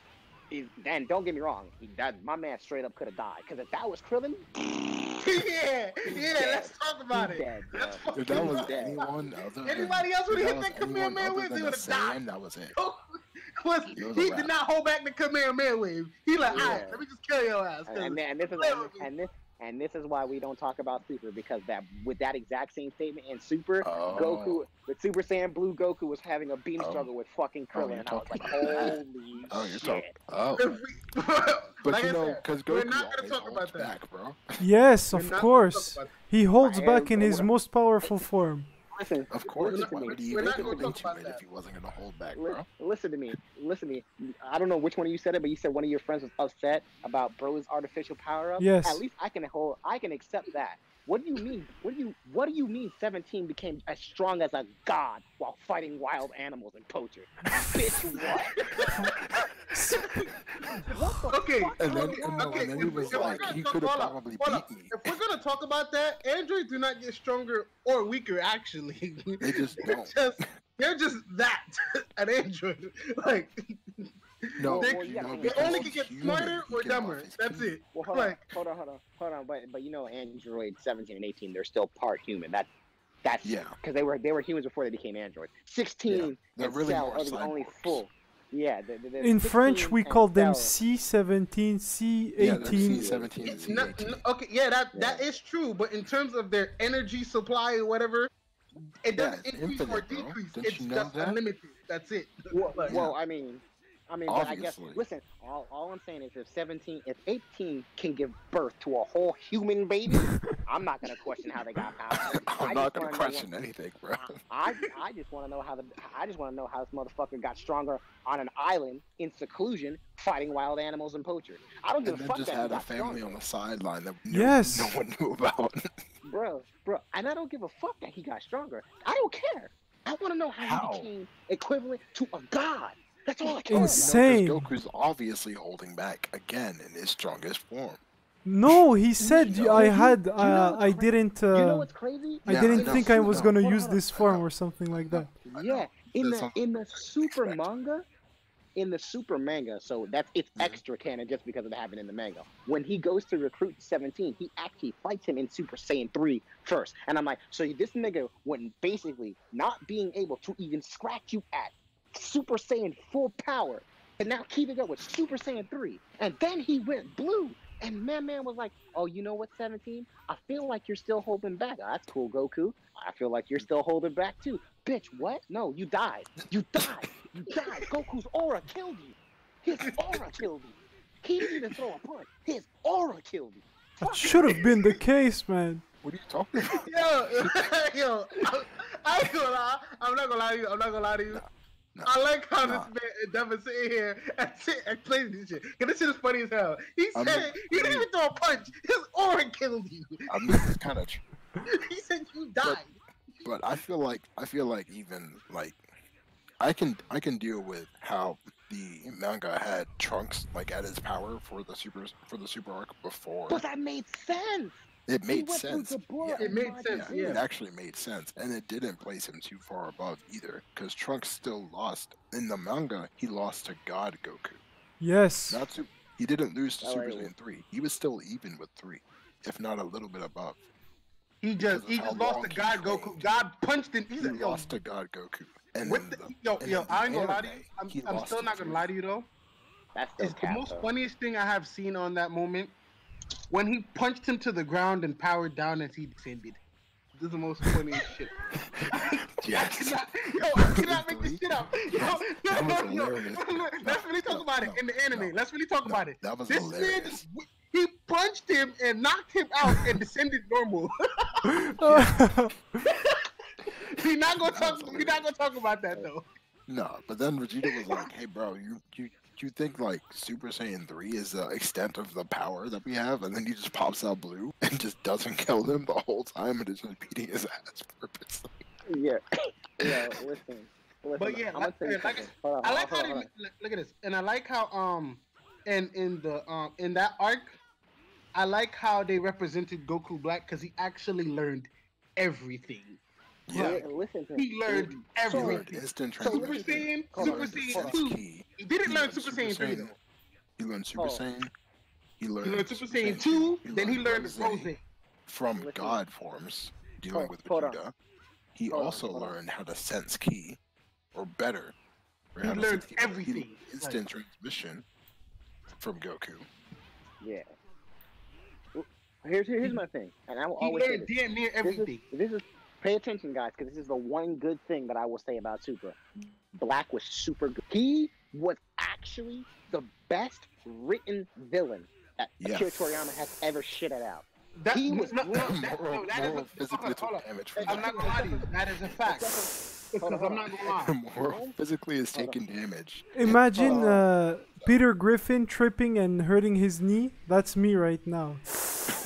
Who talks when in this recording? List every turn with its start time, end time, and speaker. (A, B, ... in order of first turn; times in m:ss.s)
0:00.5-0:04.4 A
0:05.2-0:12.2 B
0:06.1-0:09.0 A
0:08.1-0:12.8 C
0:13.6-0:19.1 B
0:14.0-0:14.5 C
0:16.5-0:17.0 A
0:16.5-0:16.9 C
0:17.9-0:30.1 A
0:23.8-0:24.7 C
0:26.8-0:27.1 C
0:27.7-0:30.8 C
0:30.6-0:34.0 B
0:31.8-0:34.6 C
0:34.6-0:38.7 D
0:35.1-0:36.1 B
0:36.6-0:38.2 A
0:38.9-0:41.0 A
0:39.3-0:42.7 C
0:39.7-0:41.4 B
0:42.3-0:58.6 A
0:48.6-0:49.0 D
0:58.7-0:58.9 B
0:59.7-1:00.3 D
1:00.9-1:03.6 A
1:01.3-1:13.5 B
1:01.8-1:05.1 C
1:09.4-1:10.5 C
1:14.6-1:17.7 C
1:14.6-1:18.4 B
1:14.7-1:16.0 A
1:17.9-1:22.7 A
1:23.2-1:30.8 A
1:23.4-1:23.8 C
1:26.1-1:28.0 C
1:29.2-1:33.1 D
1:32.4-1:34.2 C
1:32.5-1:33.8 A
1:33.4-1:43.0 B
1:34.9-1:35.2 A
1:39.2-1:41.4 C
1:42.5-1:53.5 A
1:42.9-1:43.2 C
1:44.3-1:45.0 C
1:52.4-1:54.4 C
1:54.2-2:03.4 A
2:02.0-2:05.8 C
2:04.3-2:05.0 D
2:06.2-2:14.1 A
2:10.6-2:11.1 C
2:13.7-2:14.7 D
2:13.7-2:18.0 C
2:18.4-2:21.9 D
2:19.2-2:24.0 A
2:19.3-2:20.6 C
2:22.4-2:25.3 D
2:22.5-2:23.6 C
2:24.1-2:27.6 C
2:25.5-2:28.1 A
2:28.8-3:04.6 A
2:30.6-2:30.8 C
3:04.0-3:05.8 D
3:06.0-3:07.5 C
3:06.6-3:11.4 B
3:11.3-3:12.9 C
3:12.0-3:20.7 B
3:17.1-3:18.1 C
3:20.3-3:21.2 C
3:21.7-3:22.9 B
3:23.4-3:25.8 C
3:26.6-3:33.6 C
3:33.5-3:37.4 A
3:35.1-3:44.6 C
3:36.4-3:37.4 B
3:45.0-3:45.7 D
3:45.5-3:50.6 C
3:46.8-3:47.3 A
3:51.4-3:54.8 B
3:51.6-3:53.4 C
3:54.2-3:58.9 C
3:55.8-3:59.3 B
4:00.0-4:00.9 A
4:00.2-4:02.8 B
4:03.5-4:06.6 B
4:07.2-4:08.3 B
4:08.5-4:10.0 C
4:09.0-4:21.5 B
4:10.5-4:17.2 C
4:21.8-4:22.6 D
4:21.8-4:22.2 C
4:22.8-4:23.2 B
4:23.8-4:26.3 B
4:24.4-4:25.3 C
4:26.7-4:38.5 C
4:38.9-4:39.2 A
4:39.8-4:43.3 A
4:41.2-4:47.6 B
4:48.3-4:53.8 B
4:53.5-4:53.9 C
4:53.5-4:55.7 A
4:54.4-5:00.0 B
4:55.3-4:59.9 C
4:56.2-4:58.0 A
5:00.6-5:01.5 C
5:01.0-5:01.2 A
5:02.2-5:04.7 C
5:02.4-5:04.8 B
5:05.3-5:07.9 C
5:05.6-5:06.0 A
5:07.1-5:07.8 A
5:08.6-5:10.6 C
5:08.7-5:09.4 A
5:11.1-5:11.8 C
5:12.4-5:14.8 C
5:12.4-5:14.0 B
5:15.8-5:16.5 C
5:18.8-5:21.1 A
5:20.6-5:22.0 B
5:21.6-5:26.0 A
5:26.5-5:35.5 A
5:32.4-5:32.9 C
5:34.6-5:39.3 B
5:35.4-5:38.2 C
5:37.6-5:38.4 A
5:39.0-5:41.6 A
5:39.9-5:40.9 B
5:40.8-5:44.1 C
5:42.1-5:42.4 A
5:43.1-5:48.9 D
5:43.6-5:43.8 B